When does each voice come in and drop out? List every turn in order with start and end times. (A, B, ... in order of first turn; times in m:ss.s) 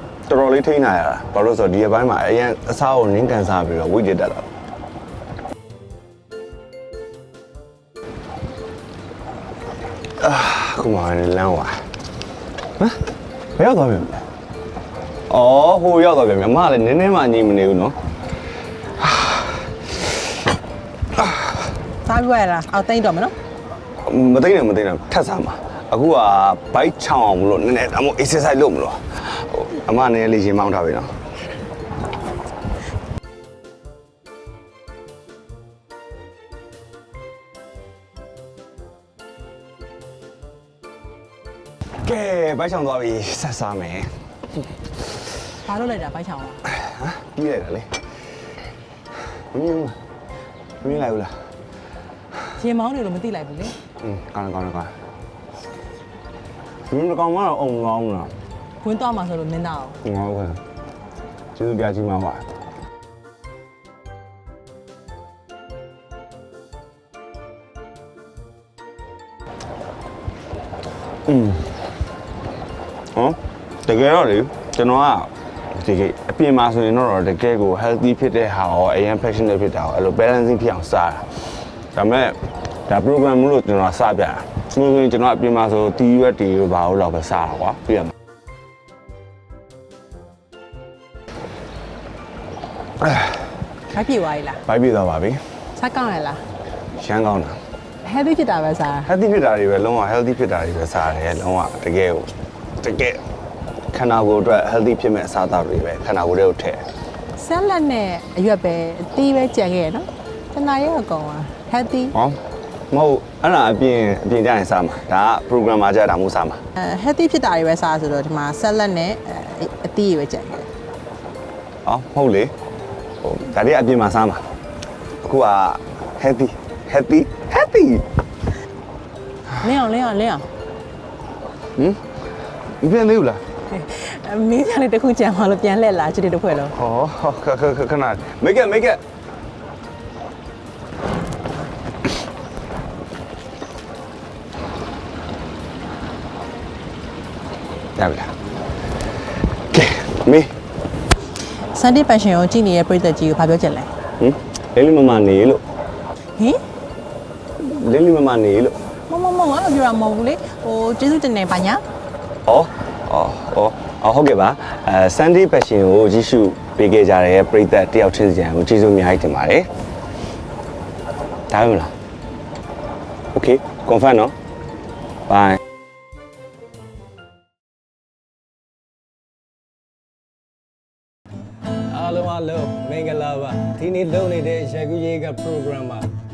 0:00.3-0:04.4 A
0:10.2-0:11.8 A
0:13.6-0:14.2 A
0:15.3-0:18.0 A
0:19.0-0:19.7 A
0:22.0-0:23.3 B
0:24.0-0:31.1 A
0:42.0-0:44.1 A
0:45.6-0:46.6 B
0:46.7-0:48.0 A
0:49.5-0:50.0 A
0:50.8-0:51.3 A
0:52.5-0:53.8 B
0:54.0-0:54.9 A
0:56.9-0:58.3 A
0:58.8-1:00.0 B
1:00.0-1:00.6 A
1:01.6-1:02.4 A
1:11.2-1:11.9 A
1:13.1-1:21.3 A
1:21.9-1:28.1 A
1:33.0-1:33.4 A
1:33.9-1:34.6 B
1:34.6-1:35.4 A
1:35.7-1:36.4 B
1:36.9-1:37.6 A
1:38.0-1:39.1 B
1:39.0-1:43.2 A
1:43.9-1:46.8 A
1:47.4-1:52.1 B
1:52.1-1:52.4 A
1:52.9-1:56.6 A
1:56.8-2:00.7 B
2:01.8-2:02.5 A
2:03.2-2:04.4 A
2:05.2-2:08.0 A
2:09.6-2:10.5 B
2:12.8-2:13.4 A
2:13.7-2:16.7 B
2:16.7-2:19.0 A
2:28.0-2:28.3 A
2:29.7-2:30.5 A
2:31.7-2:33.9 B
2:34.2-2:35.6 A
2:37.6-2:38.8 A
2:39.1-2:41.8 B
2:42.4-2:49.7 A
2:51.5-2:51.9 A
2:53.3-2:54.3 A
2:55.3-2:55.6 A
3:01.9-3:06.1 C